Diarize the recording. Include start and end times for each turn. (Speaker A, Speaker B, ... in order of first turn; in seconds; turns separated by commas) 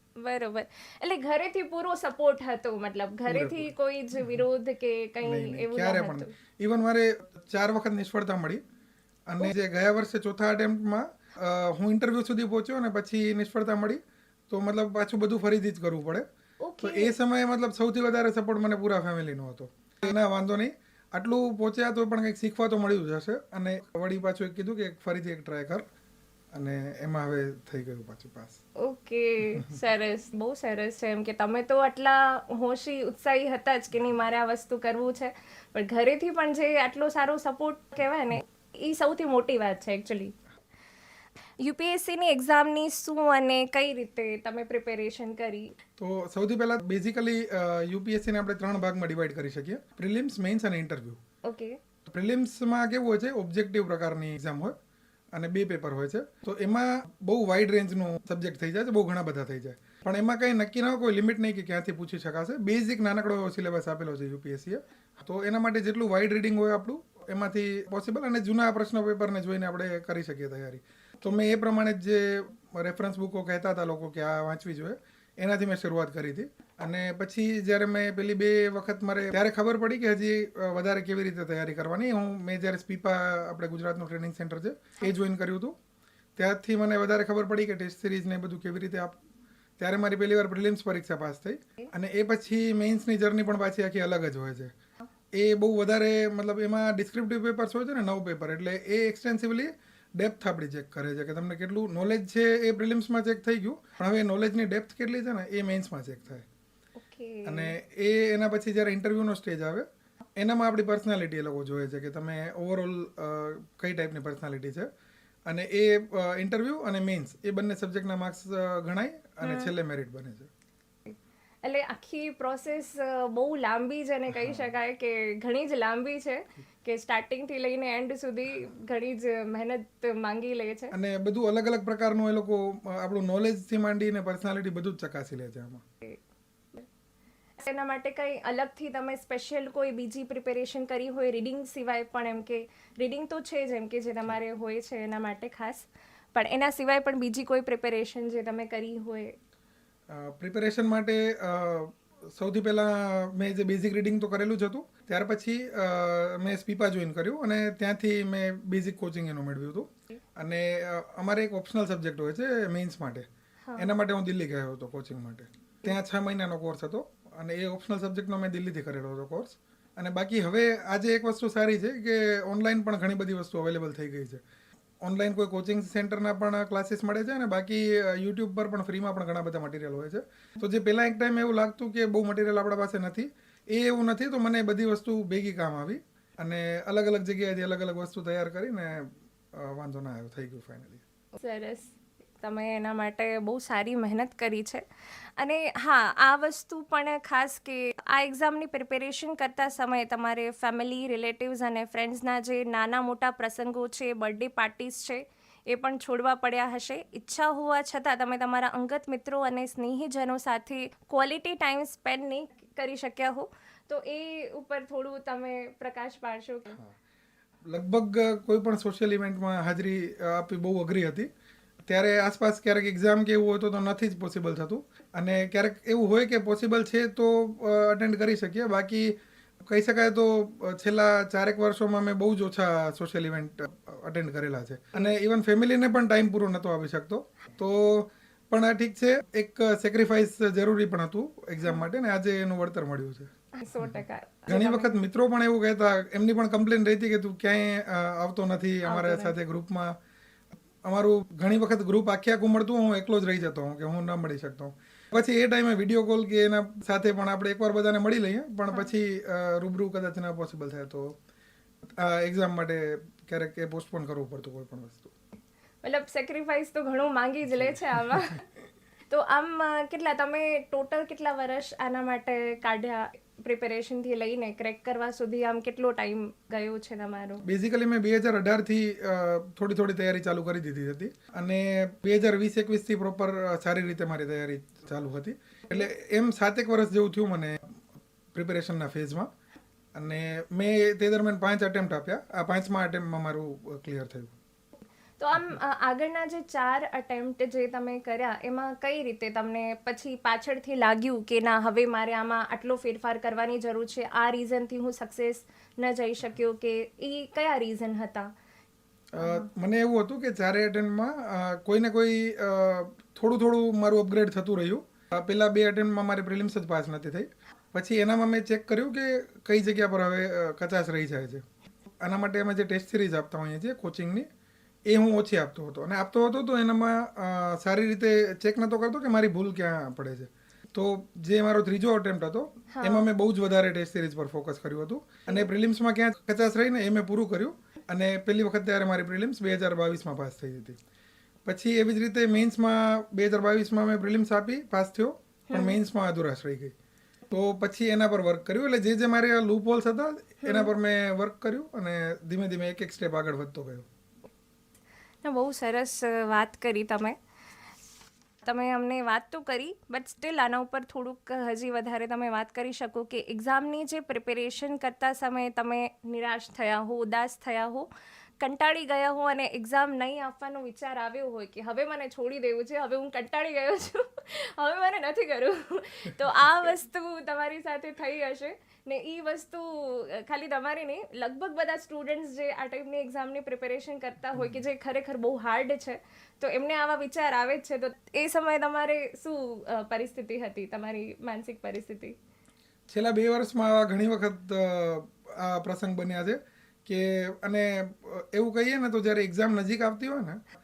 Speaker A: 0.2-6.3, Speaker B: 3.3-3.7, Speaker B: 5.2-8.6, Speaker B: 9.3-16.2, Speaker A: 16.6-17.1, Speaker B: 16.8-25.8, Speaker B: 26.5-28.6, Speaker A: 28.8-40.3, Speaker A: 41.6-45.7, Speaker B: 46.0-51.2, Speaker A: 51.5-51.8, Speaker B: 52.1-54.7, Speaker B: 55.4-85.7, Speaker B: 86.4-89.2, Speaker B: 89.8-94.7, Speaker B: 95.3-106.5, Speaker A: 107.0-107.7, Speaker B: 107.5-109.8, Speaker B: 110.4-114.9, Speaker B: 115.5-120.5, Speaker A: 119.4-119.7, Speaker A: 121.1-130.9, Speaker B: 124.3-124.7, Speaker B: 130.9-135.8, Speaker A: 137.6-149.3, Speaker B: 150.1-163.2, Speaker A: 163.6-163.9, Speaker B: 163.8-174.4, Speaker B: 175.0-191.0, Speaker A: 191.4-194.8, Speaker A: 195.4-216.8, Speaker B: 217.7-221.3, Speaker B: 221.9-243.3, Speaker A: 243.6-244.9, Speaker B: 243.8-249.9, Speaker A: 248.8-249.3, Speaker B: 250.8-261.1, Speaker B: 262.0-265.1, Speaker A: 265.8-268.4, Speaker B: 267.6-268.1, Speaker A: 269.1-277.4, Speaker B: 277.4-287.7, Speaker B: 288.3-289.3, Speaker B: 289.9-294.3, Speaker A: 295.2-308.3, Speaker B: 309.1-321.4, Speaker A: 309.2-309.5, Speaker B: 322.0-324.3, Speaker B: 324.9-340.8, Speaker A: 332.7-333.1, Speaker B: 341.4-346.7, Speaker A: 345.5-345.8, Speaker B: 347.3-353.9, Speaker A: 350.4-350.7, Speaker A: 355.2-357.2, Speaker A: 358.4-367.9, Speaker A: 368.4-392.1, Speaker B: 392.9-400.4